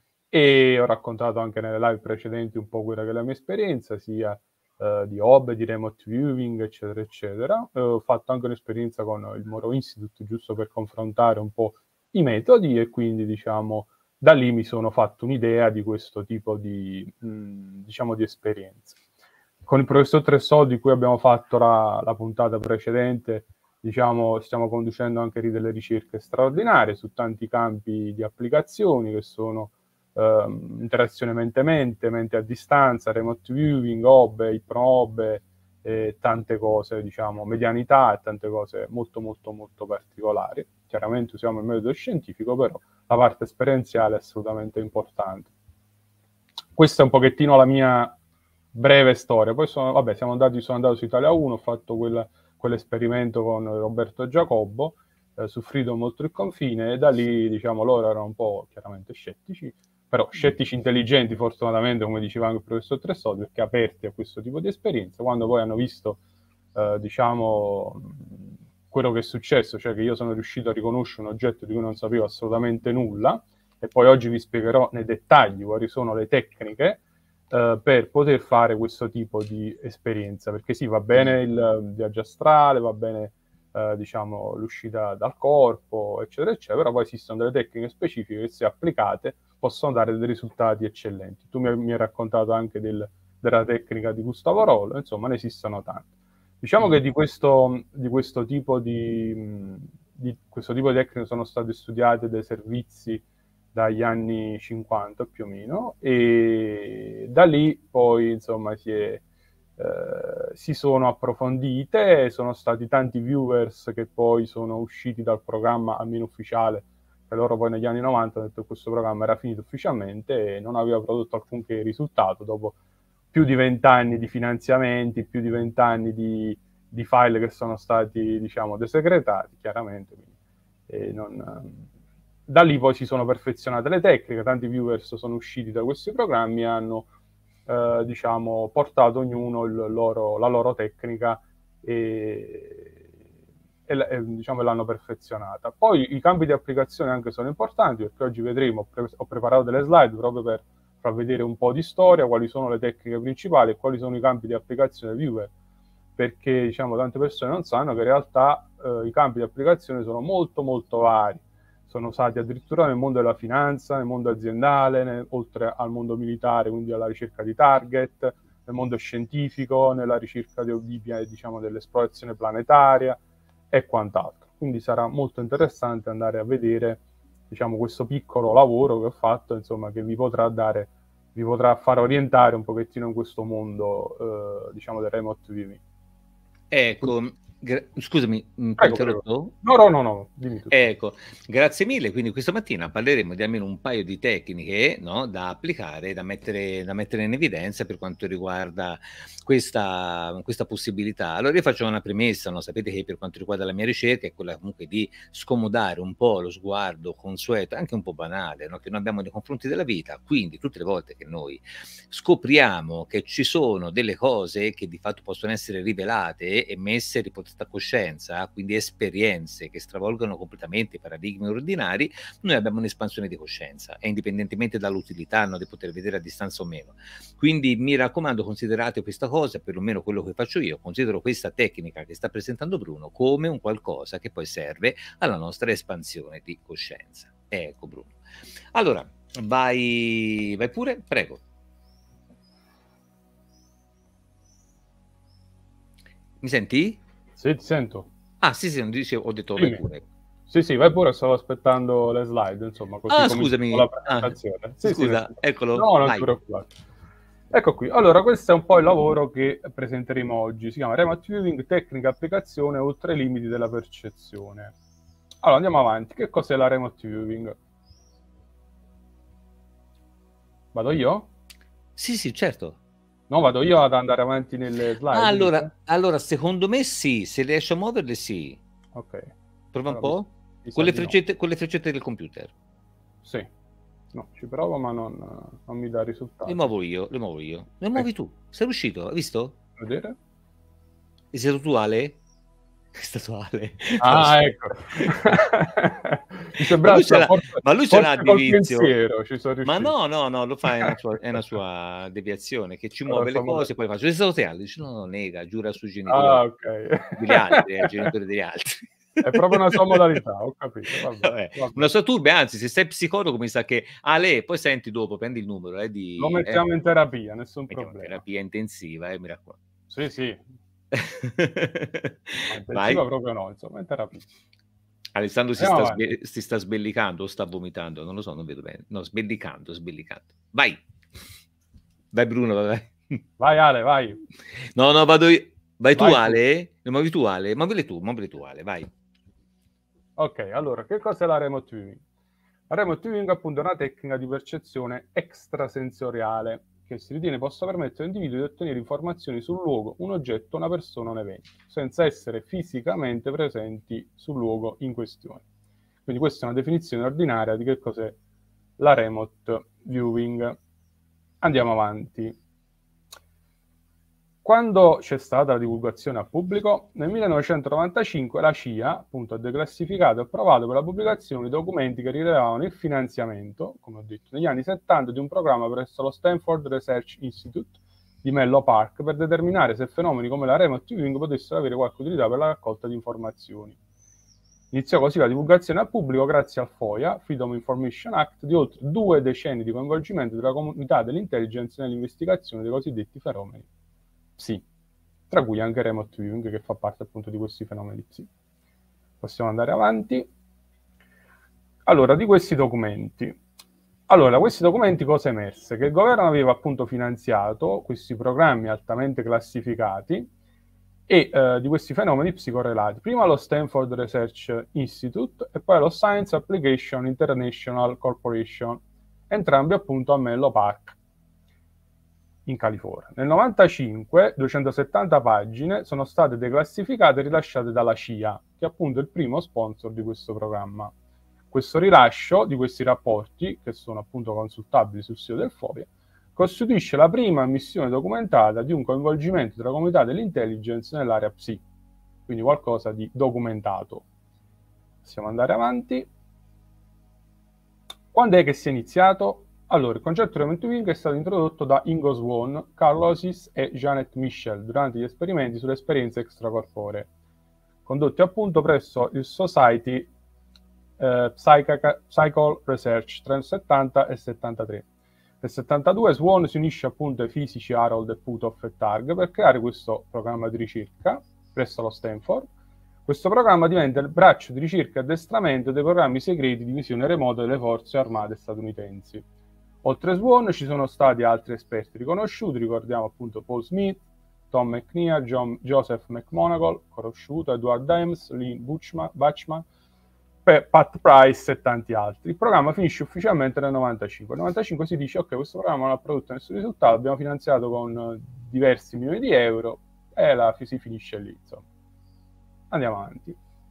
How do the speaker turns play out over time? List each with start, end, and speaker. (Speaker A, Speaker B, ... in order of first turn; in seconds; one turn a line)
Speaker A: 0.3-19.0
Speaker A: 19.6-45.5
Speaker A: 46.8-48.1
Speaker A: 48.7-66.2
Speaker A: 66.7-96.1
Speaker A: 96.6-109.2
Speaker A: 109.8-122.8
Speaker A: 123.3-130.2
Speaker A: 130.9-131.9
Speaker A: 132.5-137.1
Speaker A: 137.7-143.0
Speaker A: 143.9-155.5
Speaker A: 156.2-173.2
Speaker A: 173.7-185.8
Speaker B: 186.7-189.5
Speaker A: 188.8-190.7
Speaker B: 190.7-238.2
Speaker B: 238.7-241.4
Speaker B: 246.4-247.0
Speaker A: 247.4-248.1
Speaker B: 248.4-250.1
Speaker A: 249.6-249.8
Speaker A: 250.5-256.7
Speaker B: 253.1-256.3
Speaker A: 257.5-264.7
Speaker A: 265.4-267.6
Speaker A: 270.7-271.3
Speaker B: 272.0-272.8
Speaker A: 273.3-275.7
Speaker B: 275.1-278.6
Speaker A: 278.9-279.3
Speaker B: 279.7-282.5
Speaker A: 279.9-281.1
Speaker A: 283.2-283.5
Speaker A: 284.1-286.6
Speaker B: 286.4-289.6
Speaker A: 289.8-290.1
Speaker B: 291.3-292.2
Speaker B: 292.9-295.4
Speaker A: 294.0-299.9
Speaker B: 296.6-298.9
Speaker B: 299.6-306.4
Speaker A: 303.1-303.7
Speaker A: 306.1-308.1
Speaker B: 307.1-310.0
Speaker A: 309.2-311.9
Speaker B: 311.2-316.6
Speaker A: 316.2-318.2
Speaker B: 317.7-319.6
Speaker A: 319.9-320.4
Speaker B: 320.9-323.0
Speaker A: 322.5-324.2
Speaker B: 325.1-330.8
Speaker A: 325.6-326.0
Speaker B: 332.1-332.9
Speaker A: 333.4-334.2
Speaker B: 334.6-338.9
Speaker A: 335.9-336.4
Speaker A: 340.2-342.0
Speaker A: 342.7-355.4
Speaker A: 356.1-358.2
Speaker A: 358.8-360.6
Speaker A: 361.4-362.4
Speaker A: 364.4-383.8
Speaker A: 384.7-393.6
Speaker A: 394.4-394.6
Speaker A: 395.3-398.3
Speaker A: 399.2-400.3
Speaker A: 401.9-403.4
Speaker A: 404.1-410.3
Speaker A: 411.1-421.0
Speaker A: 422.4-430.9
Speaker A: 431.5-441.6
Speaker A: 442.3-444.0
Speaker A: 445.0-446.1
Speaker A: 448.1-457.1
Speaker A: 457.9-460.1
Speaker A: 461.0-464.9
Speaker A: 465.4-472.5
Speaker A: 473.1-479.2
Speaker A: 479.8-489.6
Speaker A: 490.4-501.6
Speaker A: 502.7-503.4